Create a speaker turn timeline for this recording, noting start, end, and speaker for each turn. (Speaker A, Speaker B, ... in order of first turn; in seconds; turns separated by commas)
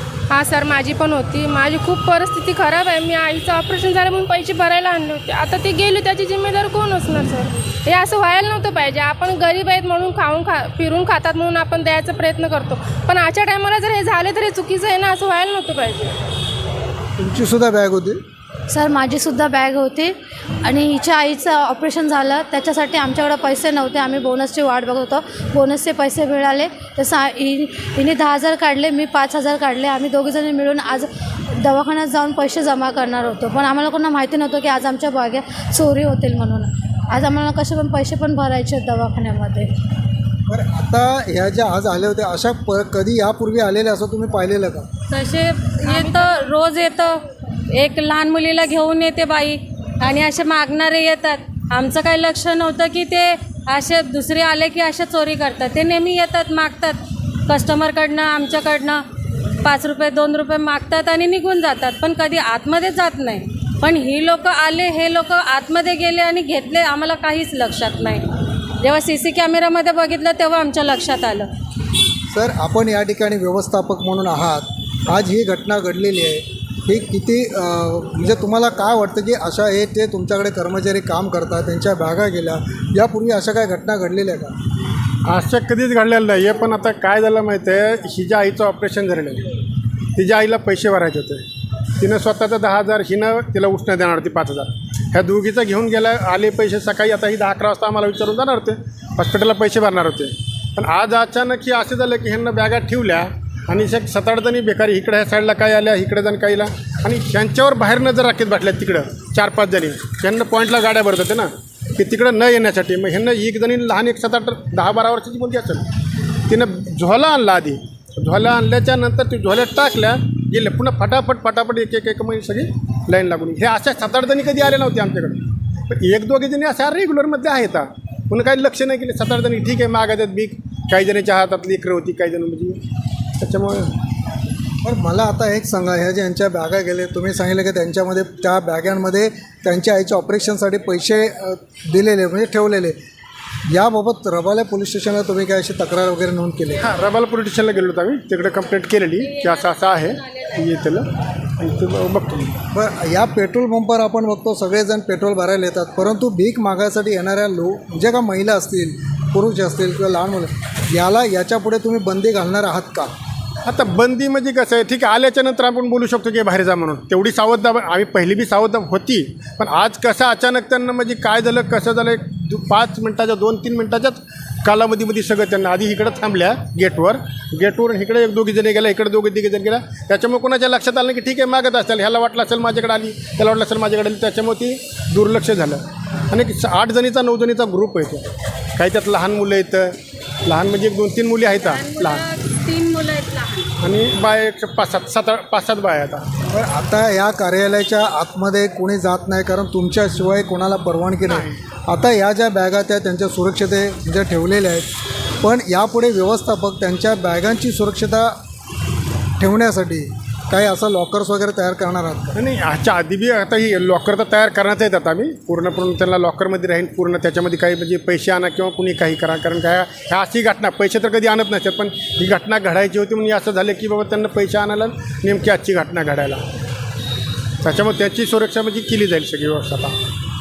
Speaker A: 0.3-16.1, Speaker B: 17.2-18.2, Speaker C: 18.7-39.7, Speaker B: 40.5-44.9, Speaker D: 45.1-47.1, Speaker D: 47.7-59.0, Speaker D: 59.6-68.3, Speaker D: 68.8-71.5, Speaker B: 72.3-84.5, Speaker E: 85.3-89.5, Speaker E: 90.1-91.4, Speaker E: 92.0-115.9, Speaker E: 116.5-132.8, Speaker E: 133.4-133.9, Speaker B: 134.8-142.9, Speaker B: 143.7-146.8, Speaker E: 146.8-152.6, Speaker D: 149.3-149.7, Speaker B: 152.7-163.1, Speaker E: 163.6-192.2, Speaker D: 191.6-193.7, Speaker E: 193.8-196.3, Speaker B: 196.5-204.9, Speaker E: 201.2-201.5, Speaker B: 205.4-208.3, Speaker B: 209.4-212.3, Speaker E: 212.3-226.4, Speaker E: 227.6-229.9